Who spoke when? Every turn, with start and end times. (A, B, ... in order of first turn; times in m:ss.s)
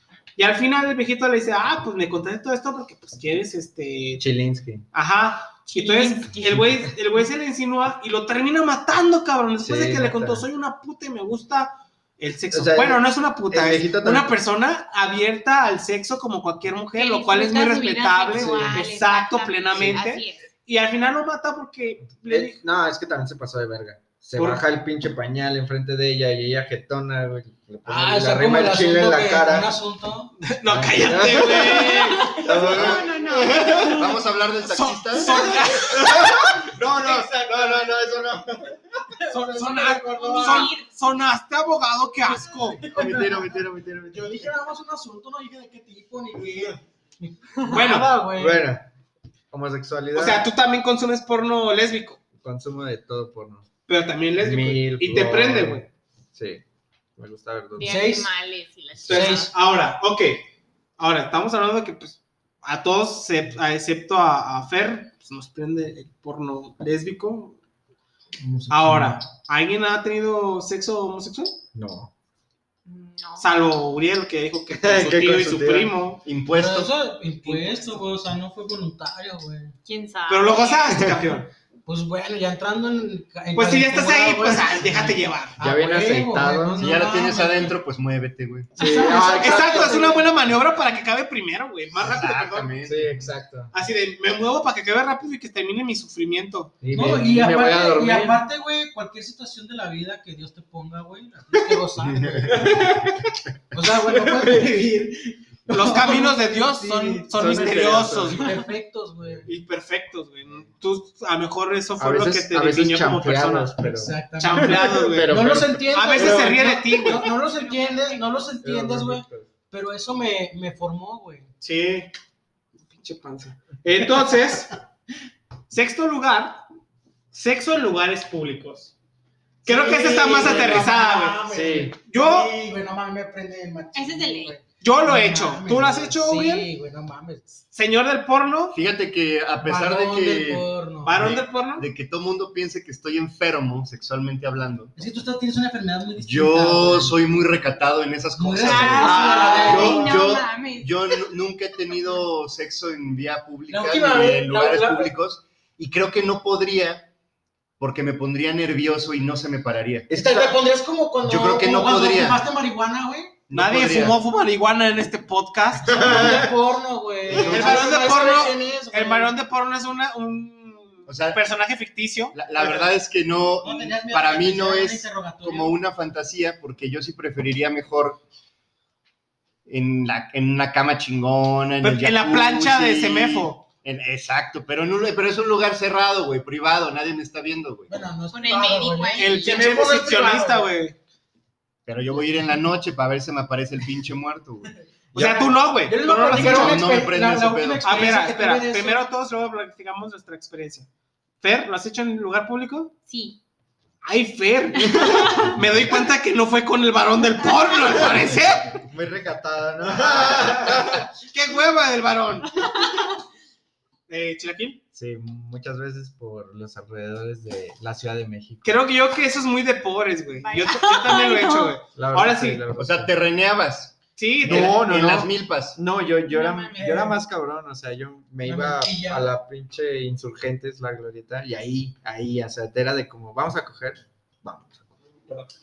0:00.4-0:04.2 A
0:04.2-0:04.8 B
0:04.9-0:22.6 A
0:05.7-0:06.4 C
0:09.6-0:10.4 B
0:12.5-0:14.4 B
0:16.9-0:20.5 C
0:18.3-0:18.8 B
0:22.2-0:29.7 B
0:24.4-0:24.6 A
0:27.8-0:30.3 D
0:30.4-0:32.4 A
0:30.7-0:33.9 B
0:31.9-0:34.2 C
0:32.6-0:35.6 E
0:34.6-0:37.7 A
0:35.8-0:38.8 B
0:39.2-0:40.7 D
0:39.3-0:42.8 A
0:40.2-0:40.9 C
0:42.7-0:43.2 D
0:42.9-0:43.6 E
0:42.9-0:44.5 B
0:44.1-0:48.6 D
0:47.7-0:48.1 A
0:48.3-0:48.9 B
0:49.5-0:50.5 B
0:50.1-0:52.2 A
0:52.3-0:53.7 B
0:53.9-0:55.9 A
0:54.4-0:56.6 B
0:57.2-0:58.1 B
0:57.8-0:59.5 C
0:57.8-0:58.3 D
0:59.0-1:00.4 A
0:59.1-0:59.5 D
1:01.0-1:07.6 A
1:08.4-1:09.2 D
1:08.7-1:11.6 A
1:11.7-1:12.1 B
1:12.8-1:13.4 C
1:13.4-1:16.2 A
1:14.8-1:15.9 B
1:16.2-1:16.9 E
1:16.5-1:19.7 D
1:17.4-1:18.0 A
1:19.8-1:21.0 C
1:20.3-1:21.5 A
1:21.9-1:27.7 D
1:23.5-1:25.6 A
1:25.6-1:26.9 B
1:26.8-1:28.7 E
1:28.8-1:30.3 D
1:28.8-1:30.2 B
1:29.4-1:32.7 A
1:32.0-1:33.3 E
1:32.8-1:33.7 B
1:33.7-1:36.7 A
1:36.8-1:38.4 B
1:36.9-1:42.8 D
1:41.6-1:44.8 B
1:43.7-1:49.5 D
1:45.7-1:48.6 A
1:47.2-1:48.6 B
1:49.4-1:53.7 A
1:52.0-1:56.5 B
1:53.8-2:01.5 D
1:54.4-1:55.3 A
1:55.9-1:57.3 A
1:57.4-1:58.5 C
1:58.6-1:59.5 B
2:01.6-2:02.1 A
2:02.9-2:04.7 A
2:05.7-2:06.6 A
2:07.3-2:08.9 A
2:09.6-2:11.4 A
2:09.6-2:17.4 D
2:11.5-2:12.0 B
2:12.1-2:12.5 A
2:13.9-2:14.6 C
2:14.8-2:16.7 A
2:17.7-2:18.8 A
2:18.7-2:24.9 E
2:19.6-2:21.2 D
2:21.0-2:21.9 A
2:24.9-2:27.2 D
2:26.2-2:37.1 E
2:28.4-2:30.2 D
2:28.6-2:31.3 C
2:28.8-2:29.8 A
2:33.7-2:35.1 D
2:37.8-2:40.1 E
2:40.1-2:40.5 B
2:40.1-2:43.3 D
2:41.2-2:42.4 E
2:43.5-2:44.2 E
2:43.5-2:46.4 A
2:45.9-2:49.3 D
2:46.1-2:46.4 B
2:47.3-2:52.5 A
2:47.3-2:48.1 E
2:51.1-2:51.4 E
2:52.3-2:58.2 E
2:52.6-2:52.8 D
2:53.6-2:55.7 D
2:59.7-3:07.9 E
3:01.8-3:03.6 A
3:07.9-3:10.7 D
3:08.3-3:09.7 C
3:09.2-3:11.0 A
3:11.8-3:15.5 E
3:15.1-3:16.9 A
3:15.8-3:19.0 D
3:16.3-3:17.8 E
3:17.8-3:20.9 A
3:21.4-3:22.9 A
3:23.0-3:23.4 C
3:24.0-3:28.8 A
3:24.8-3:25.5 C
3:28.9-3:31.0 B
3:30.2-3:32.8 A
3:32.5-3:33.2 C
3:34.1-3:34.8 A
3:34.9-3:38.8 B
3:38.6-3:42.6 A
3:40.4-3:41.8 C
3:41.9-3:43.1 B
3:42.7-3:45.8 E
3:44.2-3:45.2 A
3:44.4-3:54.8 B
3:46.2-3:46.9 C
3:46.7-3:47.2 D
3:48.4-3:49.3 D